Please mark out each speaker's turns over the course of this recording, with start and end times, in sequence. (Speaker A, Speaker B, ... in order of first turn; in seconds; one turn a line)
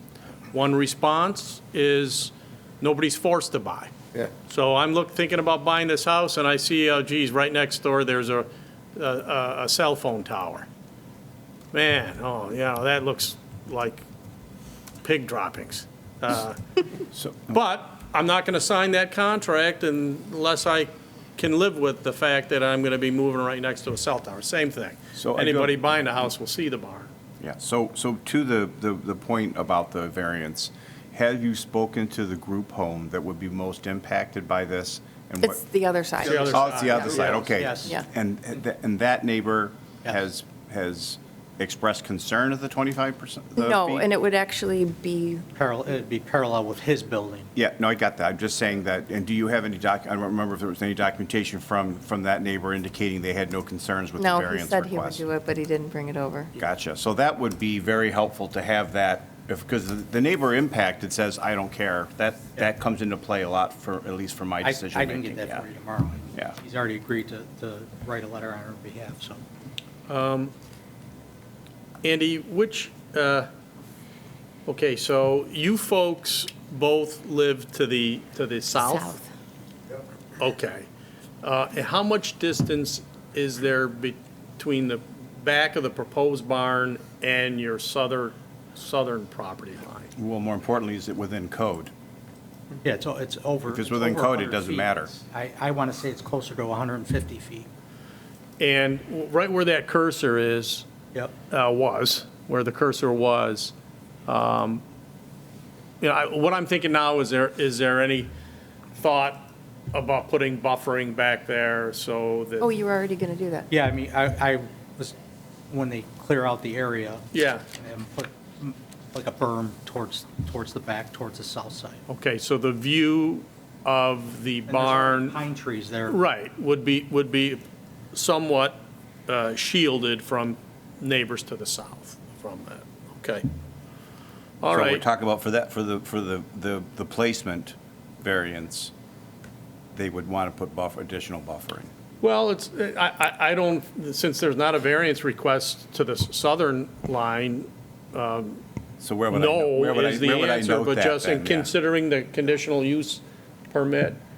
Speaker A: 0.5-3.9
Speaker A: 4.5-10.7
Speaker A: 11.7-14.1
Speaker A: 15.0-16.6
Speaker B: 17.1-17.6
Speaker A: 17.5-27.1
Speaker B: 25.1-25.8
Speaker B: 27.4-35.6
Speaker C: 35.4-37.1
Speaker B: 36.2-44.1
Speaker A: 36.2-37.4
Speaker D: 37.0-38.0
Speaker C: 43.6-45.5
Speaker D: 45.5-47.5
Speaker B: 47.5-55.2
Speaker C: 54.2-56.5
Speaker B: 56.5-65.6
Speaker D: 64.6-69.4
Speaker A: 70.1-70.5
Speaker A: 72.0-73.5
Speaker A: 74.7-79.2
Speaker A: 80.4-80.9
Speaker A: 81.4-90.1
Speaker B: 90.2-91.9
Speaker D: 92.8-97.7
Speaker B: 93.7-95.1
Speaker A: 98.6-100.8
Speaker A: 101.5-103.7
Speaker A: 104.2-104.8
Speaker A: 106.0-108.3
Speaker A: 108.9-112.7
Speaker C: 112.6-113.7
Speaker D: 113.7-115.1
Speaker D: 115.7-122.0
Speaker A: 117.3-117.6
Speaker A: 122.1-125.4
Speaker D: 124.7-126.2
Speaker A: 126.1-133.5
Speaker A: 134.6-135.0
Speaker B: 134.7-138.9
Speaker B: 139.9-141.9
Speaker A: 142.2-148.6
Speaker B: 149.0-151.7
Speaker A: 149.3-154.2